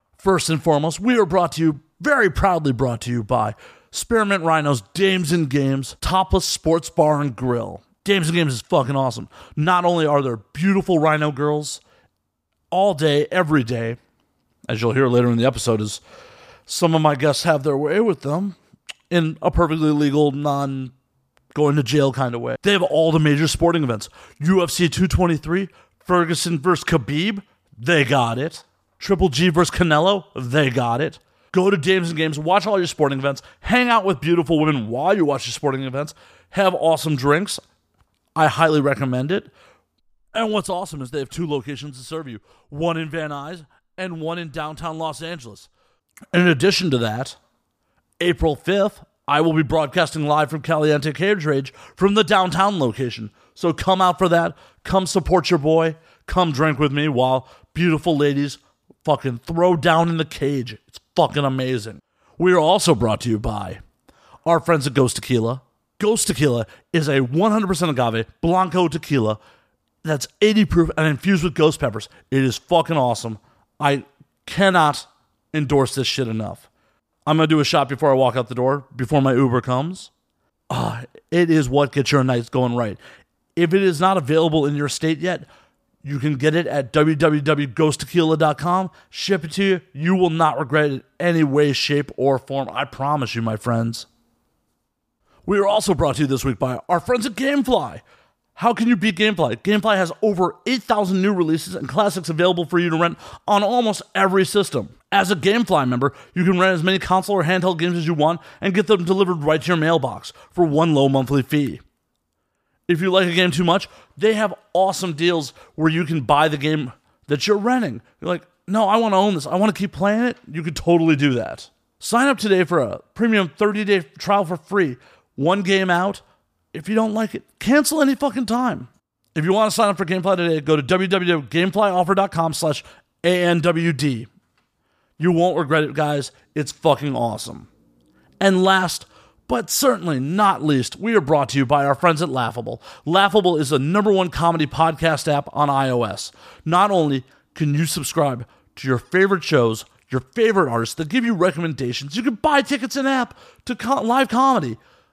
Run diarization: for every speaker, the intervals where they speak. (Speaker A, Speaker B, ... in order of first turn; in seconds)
Speaker A: 0.2-11.8, 12.7-14.0, 14.7-16.0, 16.7-18.6, 19.1-20.9, 21.5-37.6, 38.4-39.5, 40.3-45.7, 46.3-47.4, 48.2-63.8, 64.5-69.4, 70.0-76.7, 77.3-80.1, 80.7-83.0, 83.6-85.5, 86.0-94.1, 95.5-98.0, 98.6-111.8, 112.9-126.2, 126.7-134.3, 135.2-137.7, 138.4-154.8